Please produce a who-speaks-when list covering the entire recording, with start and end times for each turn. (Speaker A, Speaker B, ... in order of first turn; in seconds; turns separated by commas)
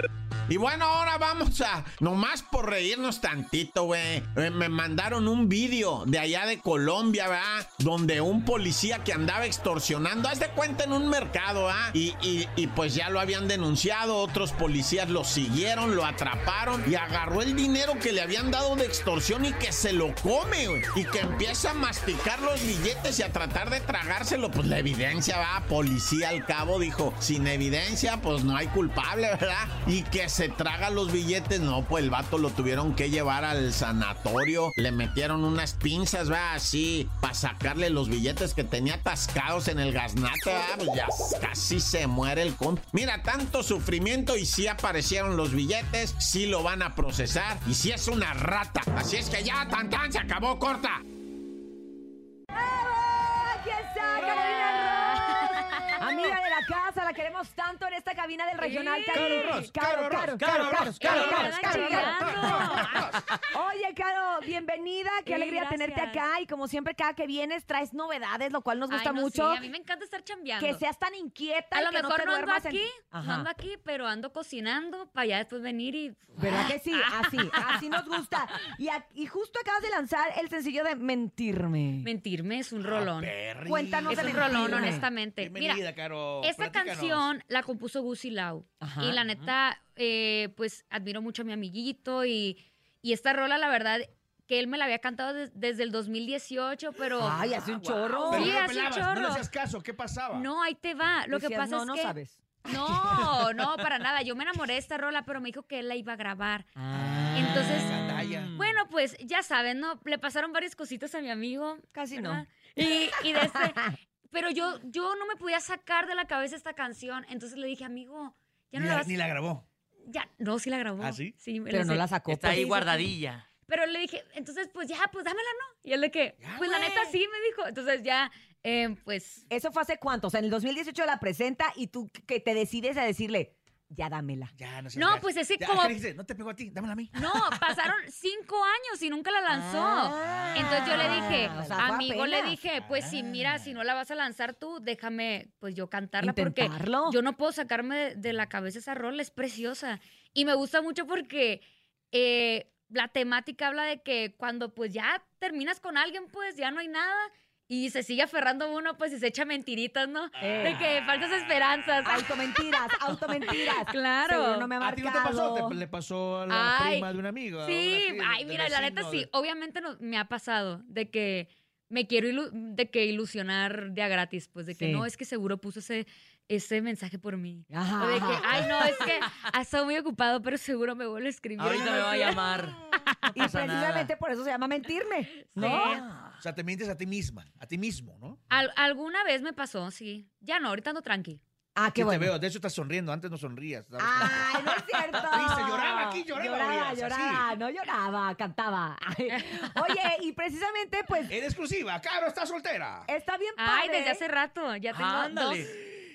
Speaker A: 0.5-51.0, Speaker B: 52.5-62.8, Speaker C: 54.0-56.3, Speaker C: 58.6-59.7, Speaker D: 59.1-63.1, Speaker E: 60.2-61.5, Speaker C: 60.9-63.1, Speaker B: 63.5-69.6, Speaker C: 65.2-66.2, Speaker C: 68.9-70.8, Speaker B: 70.6-73.5, Speaker C: 71.7-77.8, Speaker B: 76.4-82.1, Speaker C: 82.0-83.3, Speaker D: 82.8-87.3, Speaker B: 83.7-85.0, Speaker C: 84.0-85.8, Speaker C: 86.4-99.5, Speaker B: 88.8-89.2, Speaker E: 89.3-89.5, Speaker B: 97.2-98.5, Speaker D: 98.2-100.5, Speaker C: 100.3-108.0, Speaker B: 101.3-103.2, Speaker B: 106.8-108.2, Speaker D: 106.9-108.8, Speaker E: 108.0-108.6, Speaker C: 108.5-119.1, Speaker B: 111.9-112.4, Speaker B: 113.2-113.9, Speaker D: 118.7-119.7, Speaker C: 120.0-122.2, Speaker D: 121.0-121.3, Speaker B: 121.7-123.0, Speaker E: 122.3-123.5, Speaker C: 123.7-129.4, Speaker D: 126.4-127.1, Speaker B: 129.5-134.5, Speaker D: 134.6-137.5, Speaker C: 134.9-136.0, Speaker C: 137.1-151.6, Speaker B: 139.5-142.6, Speaker D: 140.2-141.9, Speaker D: 142.7-143.7, Speaker B: 146.2-147.2, Speaker C: 152.1-162.9, Speaker B: 160.4-160.8, Speaker B: 162.0-165.8, Speaker C: 163.4-164.8, Speaker D: 164.8-169.3, Speaker C: 166.5-167.1, Speaker C: 167.6-182.7, Speaker B: 174.7-175.1, Speaker B: 177.7-178.7, Speaker E: 178.5-179.2, Speaker E: 181.6-184.1, Speaker B: 183.3-186.1, Speaker C: 185.3-186.0, Speaker E: 185.6-186.4, Speaker D: 186.4-188.4, Speaker C: 188.5-191.4, Speaker B: 191.8-192.3, Speaker D: 191.9-197.5, Speaker B: 194.0-201.3, Speaker C: 199.3-199.6, Speaker D: 201.3-203.1, Speaker B: 203.1-204.2, Speaker C: 203.6-205.7, Speaker E: 204.9-205.7